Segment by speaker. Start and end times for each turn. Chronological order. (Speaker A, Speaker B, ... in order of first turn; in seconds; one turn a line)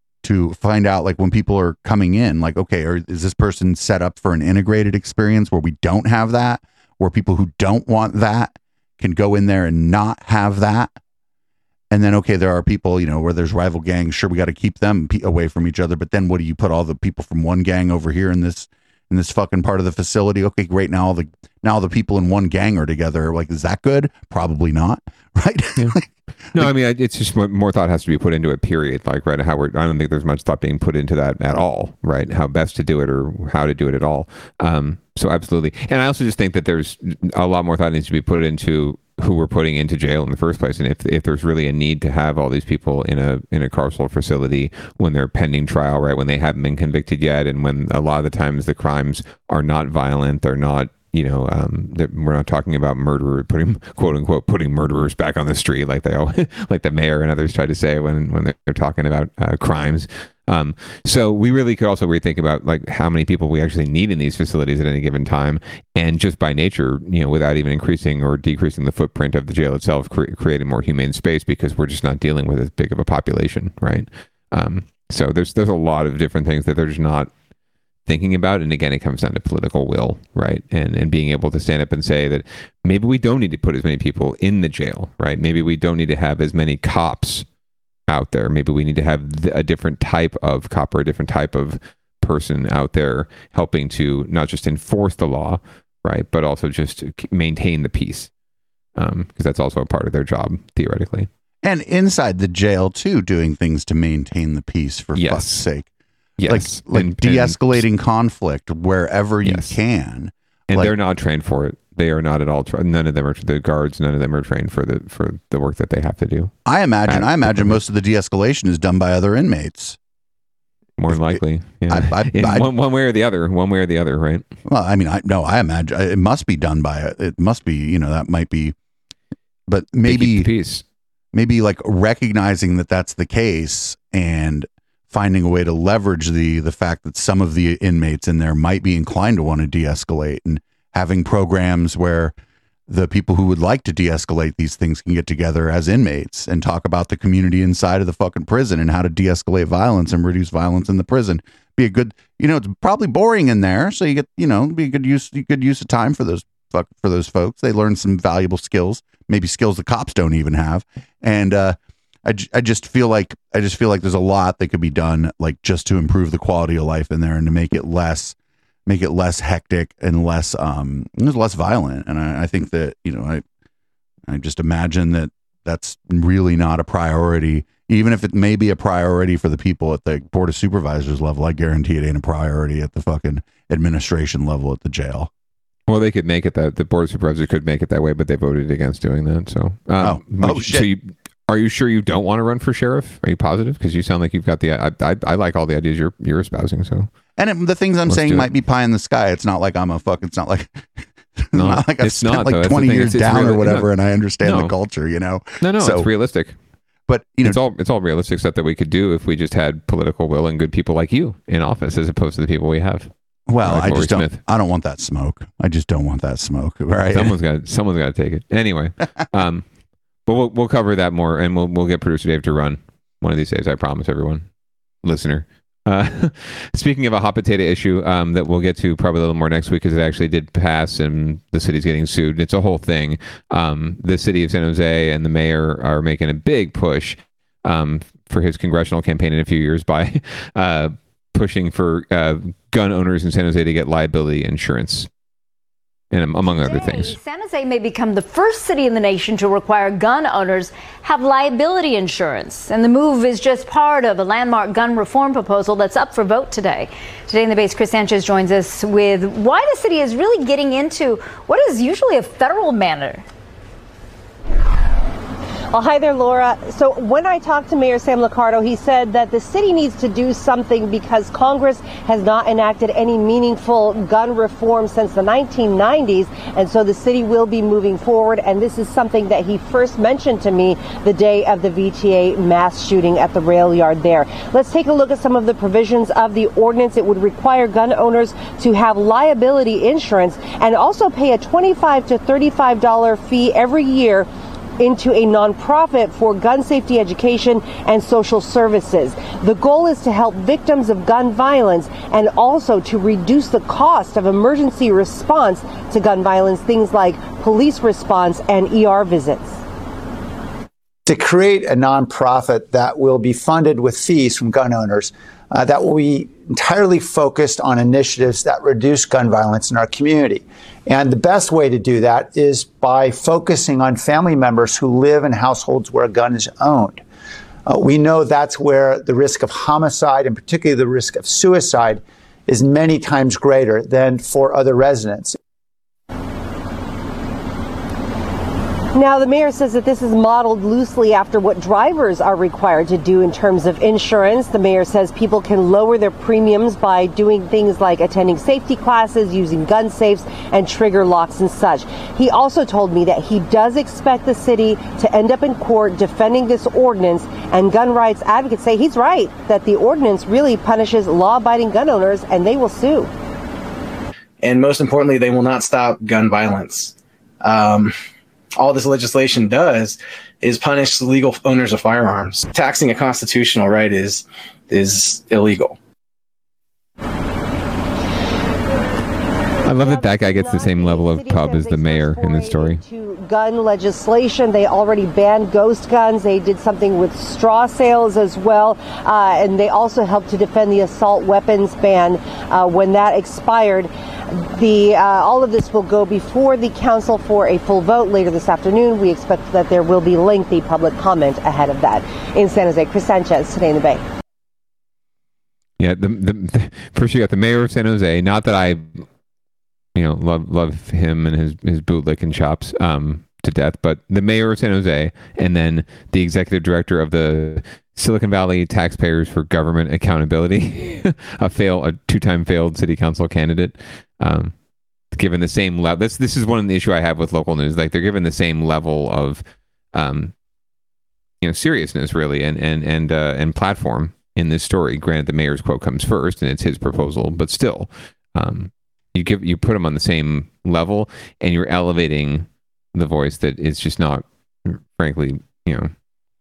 Speaker A: 0.2-10.9
Speaker A: 11.9-26.7
Speaker B: 26.5-77.3
Speaker B: 78.0-87.5
Speaker B: 88.1-98.3
Speaker B: 99.0-101.3
Speaker A: 101.6-105.9
Speaker B: 105.1-105.6
Speaker B: 106.4-107.8
Speaker A: 106.5-110.9
Speaker B: 109.4-109.7
Speaker B: 110.7-116.5
Speaker A: 116.7-120.0
Speaker B: 117.1-117.8
Speaker B: 121.0-124.5
Speaker A: 121.1-122.7
Speaker A: 124.6-128.7
Speaker A: 129.7-130.5
Speaker B: 130.1-130.8
Speaker A: 131.3-142.3
Speaker A: 142.9-168.3
Speaker A: 168.8-173.4
Speaker A: 174.3-185.3
Speaker B: 185.9-197.1
Speaker A: 190.0-190.9
Speaker A: 197.4-206.1
Speaker B: 198.1-198.5
Speaker B: 201.5-203.9
Speaker B: 204.4-204.7
Speaker B: 205.6-206.6
Speaker A: 207.1-207.6
Speaker B: 207.4-213.1
Speaker A: 213.5-217.3
Speaker B: 213.6-214.4
Speaker B: 217.1-219.7
Speaker B: 220.2-224.5
Speaker B: 225.0-245.1
Speaker B: 246.1-247.2
Speaker C: 246.6-263.2
Speaker D: 265.7-294.3
Speaker D: 294.8-309.6
Speaker E: 311.1-327.0
Speaker E: 327.6-335.4
Speaker D: 338.9-363.1
Speaker F: 364.4-366.9
Speaker F: 367.4-367.9
Speaker F: 368.6-375.7
Speaker B: 379.6-382.8
Speaker D: 379.7-404.0
Speaker B: 405.8-409.1
Speaker B: 409.9-424.5
Speaker B: 425.1-429.4
Speaker B: 429.9-430.3
Speaker B: 431.4-445.9